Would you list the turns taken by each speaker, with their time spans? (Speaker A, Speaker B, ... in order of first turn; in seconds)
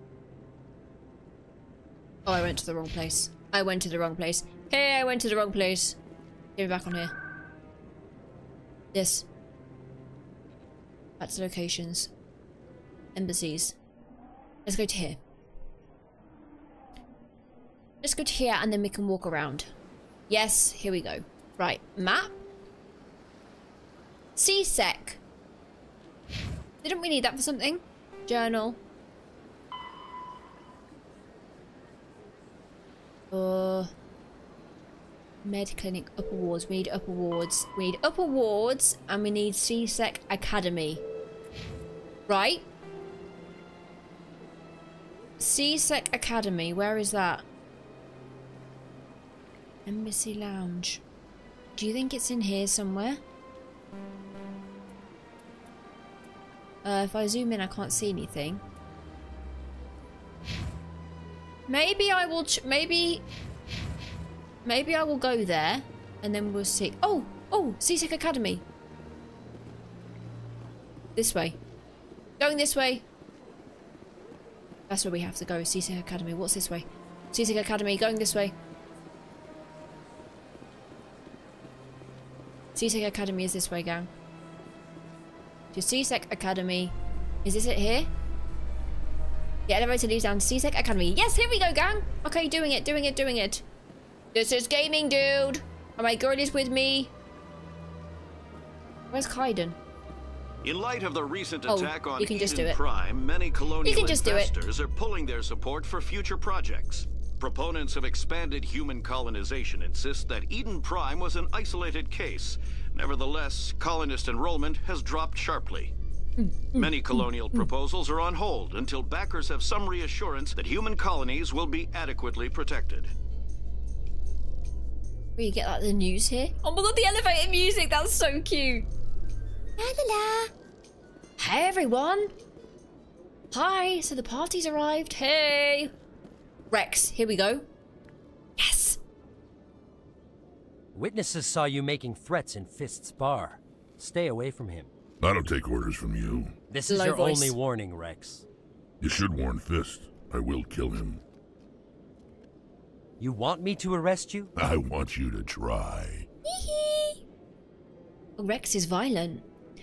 Speaker A: 2.2-6.0, 6.5-7.1, 8.9-9.2, 11.2-12.1, 13.1-13.8, 14.6-15.2, 18.0-19.7, 20.3-22.4, 24.4-25.2, 26.8-28.8, 33.3-33.9, 35.4-41.0, 42.3-42.6, 45.4-47.4, 49.9-51.0, 51.7-53.2, 56.8-58.6, 61.7-63.2, 64.6-68.6, 71.2-71.6, 72.4-73.0, 74.9-78.5, 82.7-84.1, 85.7-88.1, 89.7-93.6, 94.3-97.1, 99.1-99.8, 101.7-102.8, 103.8-104.6, 116.4-117.7, 125.4-128.9, 129.8-130.5, 131.4-132.3, 133.5-135.9, 136.7-137.7, 138.6-139.0, 146.8-147.5, 156.4-157.2, 158.4-159.4
Speaker B: 100.6-115.9, 116.8-123.1
Speaker C: 140.9-144.9, 146.7-148.4, 153.2-154.5
Speaker D: 145.2-146.5, 149.0-151.2, 154.6-156.3